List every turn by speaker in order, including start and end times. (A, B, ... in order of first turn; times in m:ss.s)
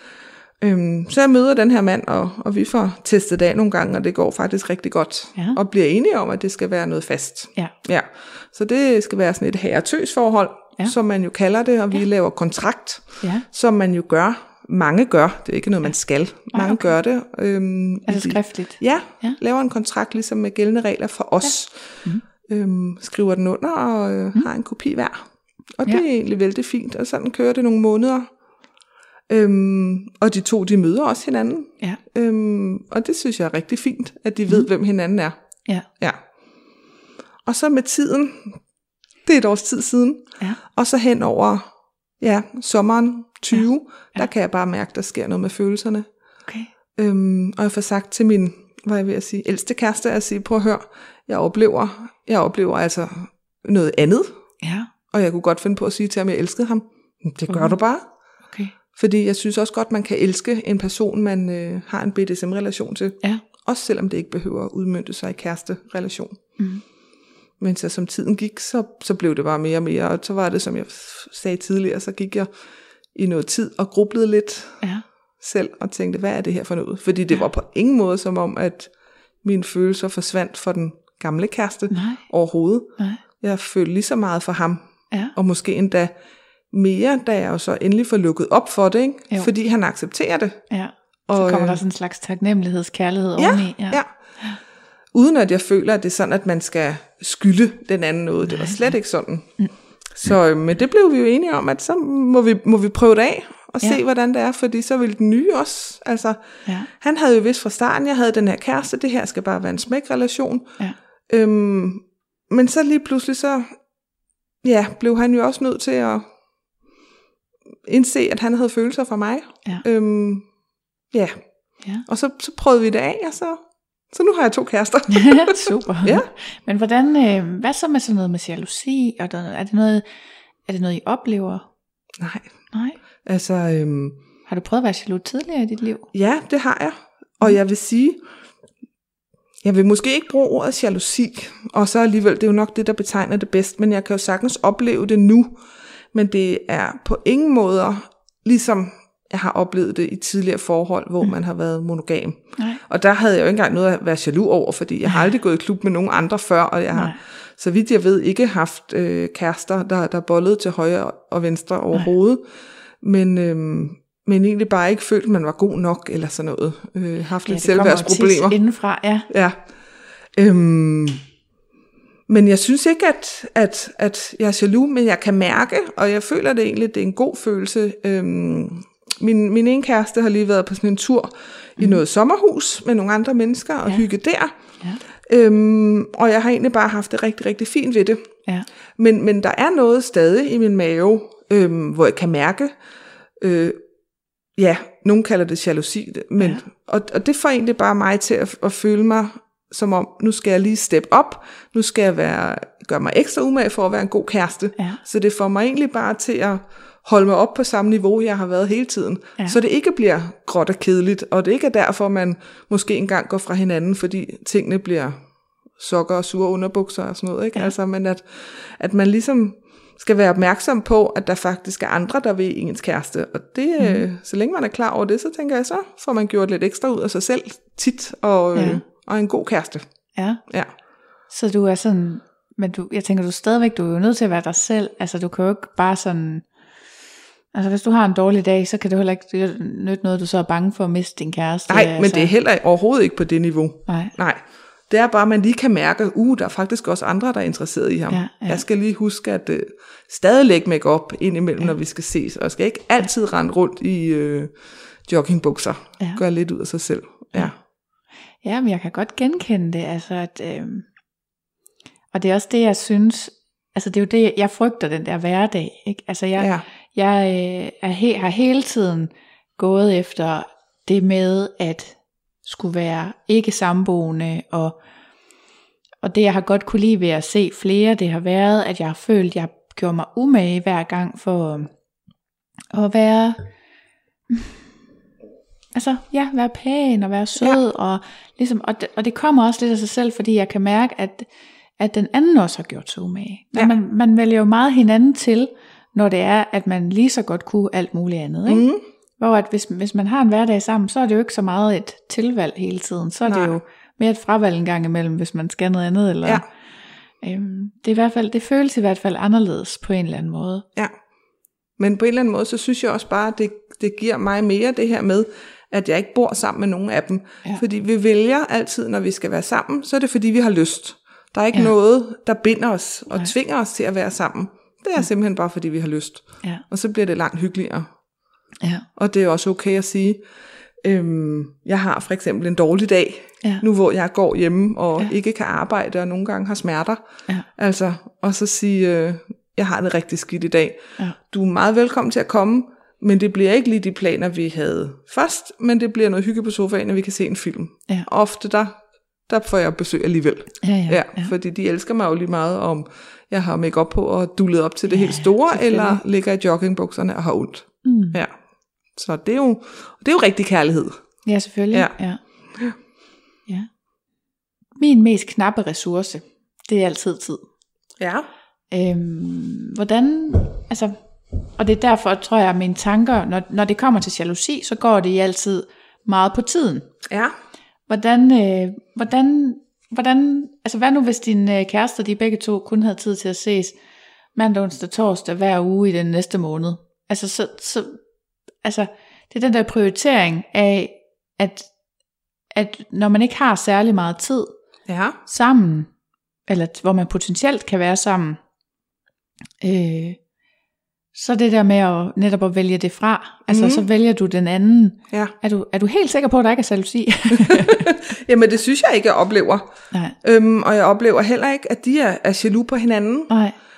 0:00.6-0:21.9 A
0:16.5-0:16.9 B
0:18.1-0:19.4 B
0:22.4-0:25.2 A
0:25.8-0:28.3 A
0:29.3-0:35.4 A
0:37.5-0:38.6 A
0:39.2-0:41.7 A
0:42.2-0:46.1 A
0:47.0-0:54.3 A
0:54.6-0:54.9 B
0:55.1-0:58.0 A
0:57.5-0:57.8 B
0:59.0-1:06.4 A
1:07.6-1:12.5 A
1:13.1-1:14.8 A
1:15.4-1:18.9 A
1:19.4-1:24.8 A
1:21.9-1:22.2 B
1:25.3-1:26.1 A
1:26.7-1:30.6 A
1:30.7-1:34.6 B
1:31.3-1:31.8 A
1:33.4-1:34.1 A
1:35.1-1:39.5 A
1:40.1-1:46.4 A
1:46.9-1:50.7 A
1:51.3-1:53.8 A
1:54.6-1:56.3 A
1:57.9-2:00.5 A
2:01.1-2:01.4 A
2:02.1-2:06.3 A
2:05.1-2:10.0 B
2:10.7-2:11.7 B
2:12.2-2:12.5 A
2:12.7-2:13.0 B
2:13.2-2:14.2 A
2:14.5-2:16.1 B
2:16.1-2:18.2 A
2:19.6-2:25.6 A
2:26.1-2:42.4 A
2:43.0-2:48.6 A
2:47.5-2:49.3 B
2:49.3-2:49.6 A
2:50.4-2:51.2 A
2:52.3-3:04.5 A
3:05.2-3:08.3 A
3:09.0-3:12.8 A
3:13.4-3:13.8 A
3:14.6-3:35.2 A
3:35.8-3:49.8 A
3:43.8-3:44.0 B
3:48.6-3:48.8 B
3:50.2-3:50.4 B
3:51.3-3:56.4 B
3:57.5-4:02.3 B
4:01.7-4:14.5 A
4:03.9-4:04.1 B
4:08.1-4:08.6 B
4:15.1-4:17.5 A
4:18.4-4:20.9 B
4:22.1-4:34.8 B
4:26.4-4:26.6 A
4:36.0-4:41.7 B
4:42.7-4:43.4 B
4:45.8-4:51.3 B
4:51.8-4:58.7 B
4:58.5-4:58.8 A
4:59.2-5:06.4 B
5:03.3-5:03.6 A
5:07.2-5:10.6 B
5:11.8-5:27.9 A
5:29.0-5:30.2 A
5:30.8-5:37.0 A
5:37.6-5:58.3 A
5:50.6-5:51.3 B
5:54.9-5:56.0 B
5:57.8-5:58.2 B
5:58.9-6:01.0 A
6:01.2-6:02.2 B
6:04.8-6:07.4 B
6:08.0-6:08.3 A
6:08.7-6:11.0 B
6:11.6-6:16.9 B
6:17.1-6:17.3 A
6:17.9-6:23.8 B
6:24.4-6:28.0 B
6:28.6-6:31.7 B
6:32.5-6:34.5 B
6:34.9-6:35.2 A
6:35.3-6:35.9 B
6:36.5-6:38.4 B
6:39.6-6:40.2 B
6:41.2-6:47.9 B
6:43.5-6:43.8 A
6:47.3-6:49.6 A
6:50.2-6:53.3 A
6:53.3-6:53.6 B